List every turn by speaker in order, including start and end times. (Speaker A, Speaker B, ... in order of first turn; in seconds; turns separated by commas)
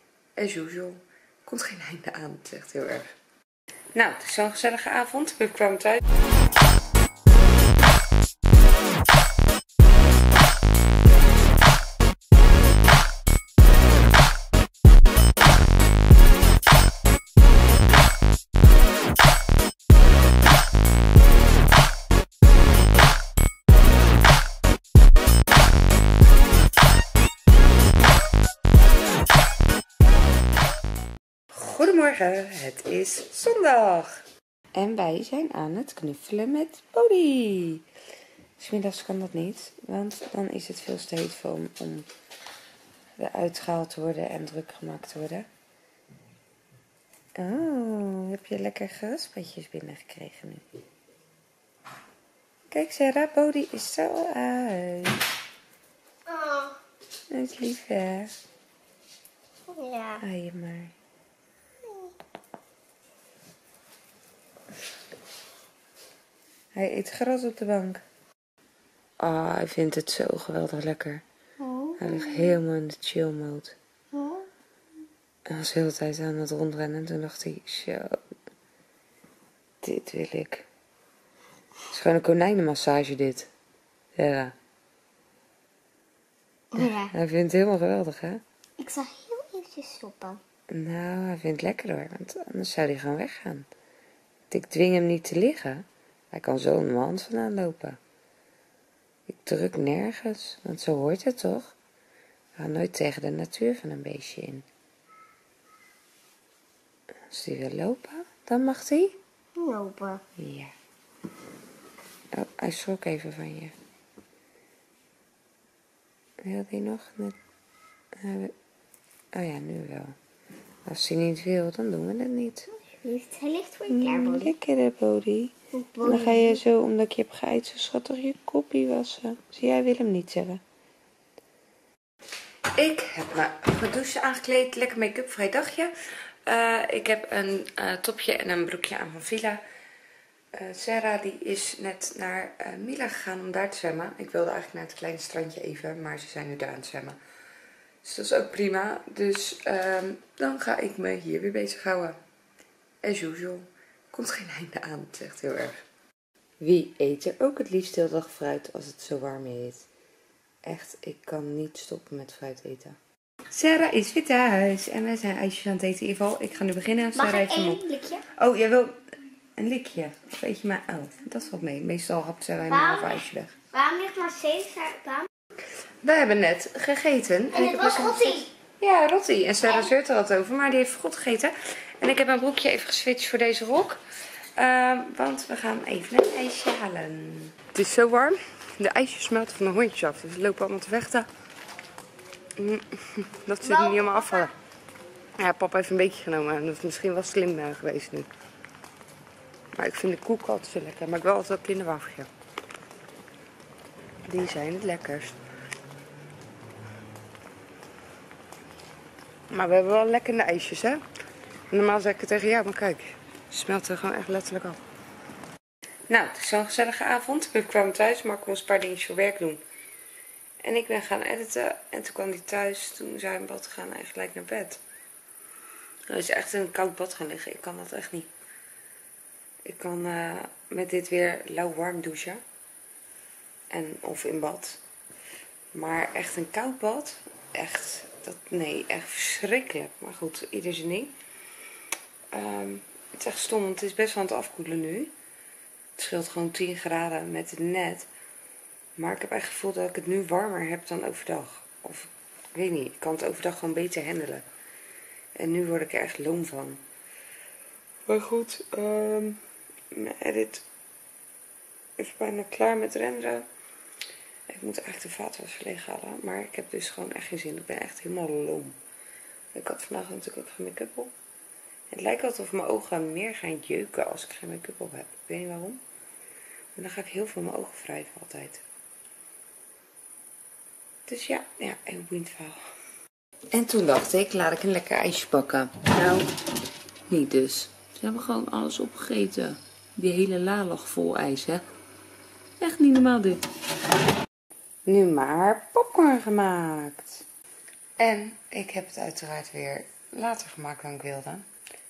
Speaker A: 0.4-3.1, Speaker A: 4.0-6.0, Speaker A: 31.5-34.2, Speaker A: 34.8-37.9, Speaker A: 38.6-42.1, Speaker A: 43.2-45.5, Speaker A: 47.4-50.6, Speaker A: 52.7-55.2, Speaker B: 56.3-56.7, Speaker A: 57.3-58.3, Speaker B: 59.7-60.2, Speaker A: 60.2-60.9, Speaker A: 66.8-68.0, Speaker A: 69.2-71.2, Speaker B: 71.6-72.6, Speaker A: 72.0-73.8, Speaker B: 74.1-74.5, Speaker A: 75.5-78.2, Speaker A: 79.8-80.7, Speaker A: 81.9-83.5, Speaker A: 84.2-84.5, Speaker B: 86.7-87.1, Speaker A: 86.8-88.4, Speaker B: 88.8-90.4, Speaker A: 90.7-93.7, Speaker A: 94.5-98.0, Speaker A: 99.3-101.8, Speaker A: 102.6-104.7, Speaker A: 107.3-109.2, Speaker B: 109.6-110.2, Speaker A: 110.4-110.7, Speaker A: 112.3-113.7, Speaker A: 116.4-117.4, Speaker A: 118.2-118.5, Speaker A: 119.3-120.2, Speaker A: 120.9-122.7, Speaker B: 123.0-124.5, Speaker A: 123.9-130.6, Speaker B: 125.7-126.6, Speaker A: 132.8-135.9, Speaker A: 136.5-139.6, Speaker A: 140.5-147.2, Speaker A: 148.0-152.2, Speaker A: 153.0-155.8, Speaker A: 156.6-159.9, Speaker A: 160.6-163.0, Speaker A: 163.5-169.0, Speaker B: 167.2-168.3, Speaker A: 169.6-173.6, Speaker B: 172.7-175.3, Speaker A: 176.0-184.0, Speaker B: 177.5-178.5, Speaker A: 184.6-191.3, Speaker A: 192.6-194.5, Speaker B: 193.6-194.5, Speaker A: 195.4-198.3, Speaker A: 199.7-202.3, Speaker A: 204.3-205.4, Speaker A: 209.5-211.0, Speaker A: 211.7-214.8, Speaker A: 216.1-219.6, Speaker A: 220.6-224.8, Speaker A: 226.1-228.3, Speaker A: 229.7-232.4, Speaker A: 233.7-234.8, Speaker A: 235.7-241.1, Speaker A: 242.3-245.1, Speaker A: 246.0-248.1, Speaker A: 249.0-254.4, Speaker A: 255.4-256.8, Speaker A: 258.1-260.6, Speaker A: 262.0-263.5, Speaker A: 264.5-268.8, Speaker A: 269.5-271.1, Speaker A: 271.9-275.8, Speaker A: 276.8-278.6, Speaker A: 281.1-282.6, Speaker A: 283.5-286.3, Speaker A: 287.1-291.6, Speaker A: 292.6-293.4, Speaker A: 294.9-297.2, Speaker A: 298.0-301.5